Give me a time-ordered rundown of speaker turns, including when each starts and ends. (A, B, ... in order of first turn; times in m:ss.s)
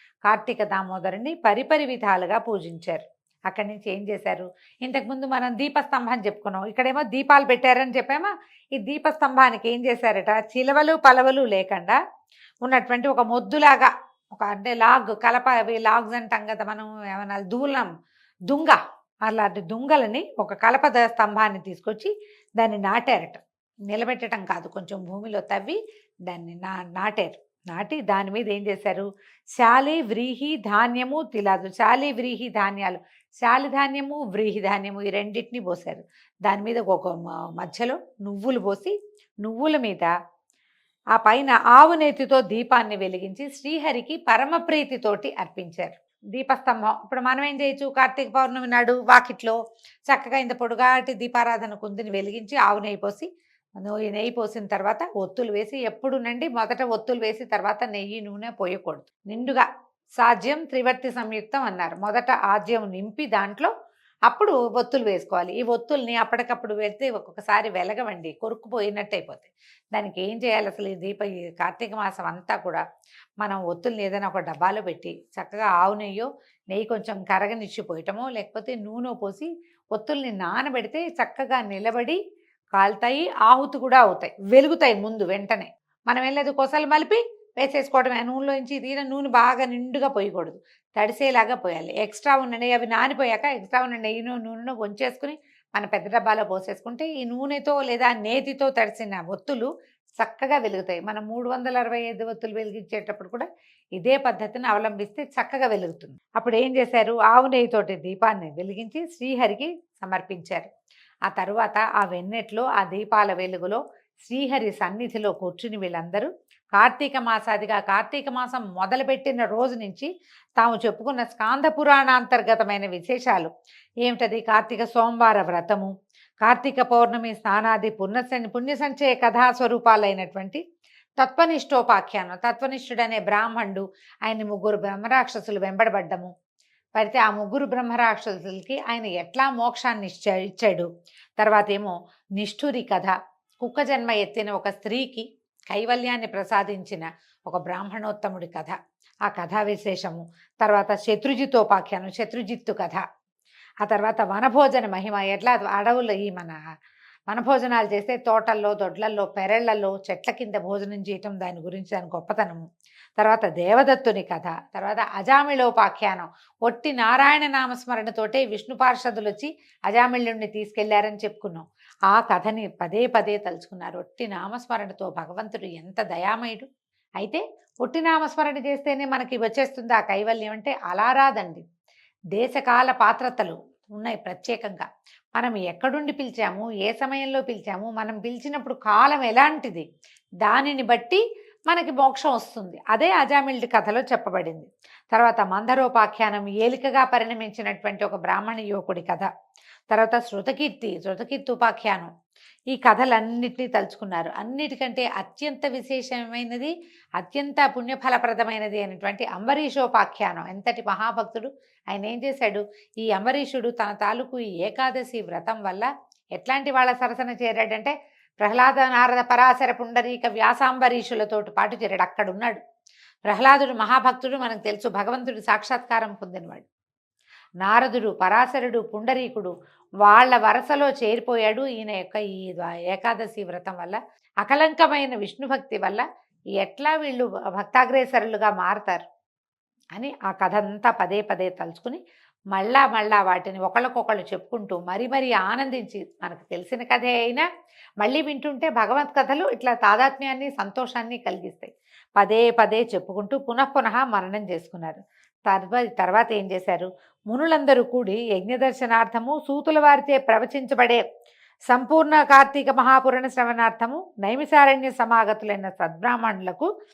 0:00.2-0:12.0 A
0:12.6-0:17.9 A
0:18.5-0:29.1 A
0:29.6-0:40.1 A
0:41.1-0:49.6 A
0:50.1-0:53.3 A
0:53.8-0:59.6 A
1:00.2-1:03.7 A
1:04.3-1:12.8 A
1:13.4-1:22.2 A
1:22.8-1:39.7 A
1:40.2-1:50.7 A
1:51.3-2:03.5 A
2:04.0-2:05.9 A
2:06.4-2:10.6 A
2:11.2-2:16.3 A
2:17.0-2:33.0 A
2:33.8-2:36.6 A
2:37.3-2:42.6 A
2:43.2-2:56.7 A
2:57.2-3:01.6 A
3:02.3-3:09.8 A
3:10.4-3:19.3 A
3:19.9-3:22.1 A
3:22.7-3:42.6 A
3:43.2-3:46.6 A
3:47.6-3:56.0 A
3:56.6-3:59.0 A
3:59.9-4:02.0 A
4:02.5-4:07.4 A
4:08.0-4:21.0 A
4:21.7-4:26.7 A